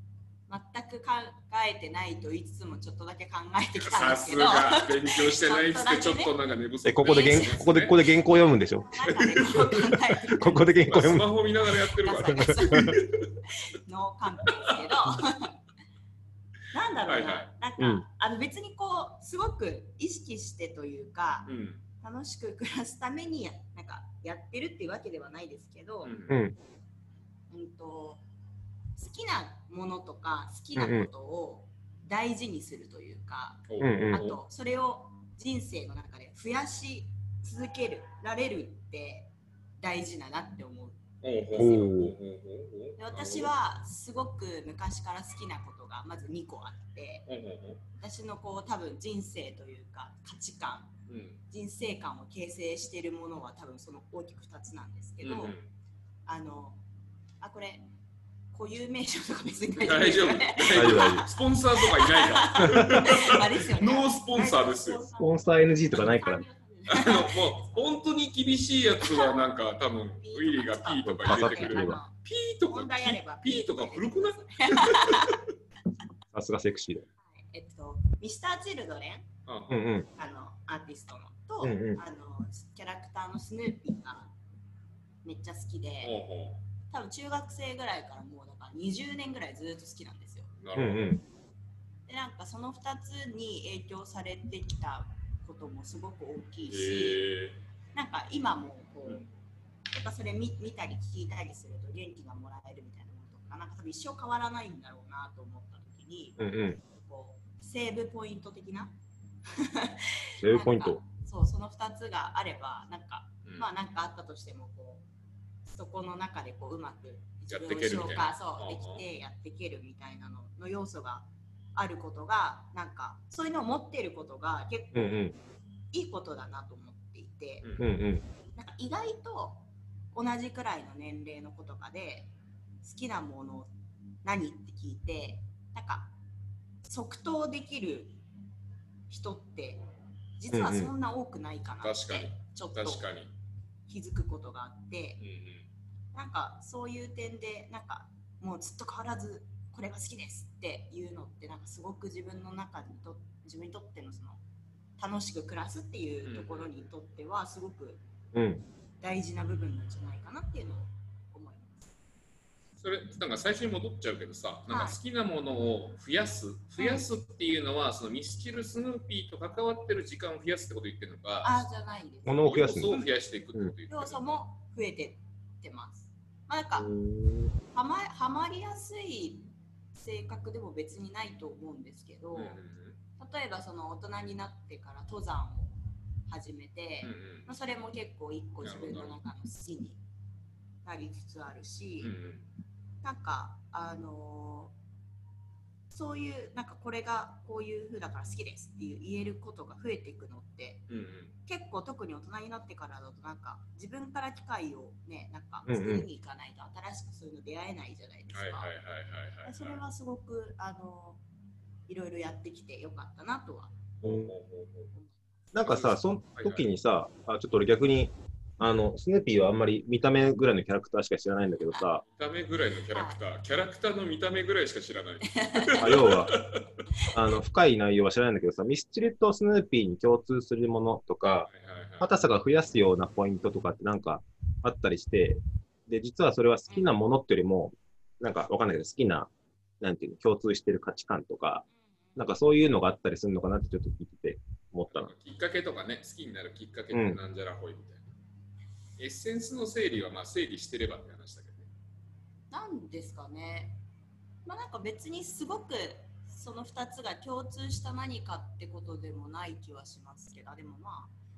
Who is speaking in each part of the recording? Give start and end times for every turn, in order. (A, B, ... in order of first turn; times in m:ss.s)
0:00.5-0:06.4 A
0:03.8-0:08.0 B
0:06.8-0:09.0 C
0:07.0-0:07.6 A
0:08.8-0:10.8 A
0:09.1-0:09.8 B
0:10.3-0:11.4 C
0:10.8-0:13.3 B
0:12.0-0:15.6 A
0:12.4-0:13.0 C
0:16.7-0:21.5 A
0:17.1-0:17.5 B
0:21.5-0:21.8 B
0:22.0-0:26.1 A
0:26.0-0:26.4 B
0:26.3-0:26.6 C
0:27.5-0:28.2 A
0:29.0-0:42.0 A
0:30.8-0:31.1 C
0:33.7-0:34.4 B
0:33.8-0:34.3 C
0:41.2-0:43.5 B
0:41.5-0:42.2 C
0:43.0-0:47.3 A
0:47.3-0:47.8 B
0:48.0-0:50.9 A
0:51.1-0:51.4 B
0:51.5-0:55.6 A
0:55.2-0:55.6 B
0:56.3-0:56.8 A
0:57.4-0:57.9 A
0:58.5-1:07.7 A
0:59.8-1:05.0 B
1:00.7-1:01.3 C
1:05.2-1:06.4 C
1:06.9-1:15.4 B
1:10.2-1:15.4 A
1:11.2-1:12.0 C
1:16.3-1:17.1 C
1:17.3-1:19.3 A
1:19.5-1:19.8 B
1:19.7-1:20.1 C
1:20.2-1:24.3 A
1:21.6-1:22.0 C
1:25.2-1:26.2 A
1:26.0-1:26.6 B
1:26.9-1:30.5 A
1:30.6-1:31.2 B
1:30.8-1:31.2 C
1:32.1-1:37.3 A
1:36.7-1:37.6 B
1:37.9-1:39.3 A
1:39.9-1:48.9 A
1:46.4-1:46.8 C
1:49.5-1:55.0 A
1:50.4-1:51.0 C
1:55.7-2:05.3 A
1:57.5-1:59.0 B
2:04.9-2:05.4 C
2:05.9-2:07.7 A
2:07.6-2:07.9 B
2:07.8-2:08.2 C
2:08.5-2:13.7 A
2:14.2-2:16.1 A
2:16.8-2:18.2 A
2:19.1-2:19.8 A
2:20.4-2:23.1 A
2:20.5-2:20.9 C
2:21.8-2:23.3 B
2:23.9-2:25.2 A
2:25.2-2:25.6 B
2:26.1-2:34.4 A
2:35.0-2:38.0 A
2:36.2-2:36.8 B
2:38.3-2:38.6 C
2:39.0-2:41.9 A
2:42.8-2:51.7 B
2:44.7-2:45.0 A
2:46.8-2:47.0 A
2:51.4-2:53.1 A
2:52.3-2:53.0 C
2:52.4-2:54.4 B
2:53.9-2:56.9 A
2:56.8-2:57.6 C
2:57.7-3:02.6 A
3:02.3-3:03.0 B
3:03.2-3:10.0 A
3:07.0-3:07.5 B
3:08.6-3:09.2 B
3:10.8-3:12.1 A
3:12.0-3:12.5 B
3:13.0-3:14.7 A
3:15.9-3:20.8 A
3:20.9-3:21.3 B
3:21.5-3:28.7 A
3:25.7-3:26.1 C
3:28.3-3:29.8 B
3:29.4-3:31.2 A
3:31.9-3:33.8 A
3:34.0-3:34.9 B
3:34.0-3:34.3 C
3:34.9-3:35.2 A
3:35.5-3:42.0 C
3:35.6-3:36.7 B
3:42.0-3:46.7 B
3:45.3-3:45.8 A
3:45.8-3:46.4 C
3:47.1-3:51.5 C
3:51.5-3:52.1 B
3:52.0-3:59.3 C
3:59.8-4:01.6 C
4:02.2-4:05.1 C
4:04.9-4:08.1 B
4:06.9-4:07.2 C
4:09.0-4:11.7 B
4:12.5-4:13.8 A
4:14.4-4:21.1 A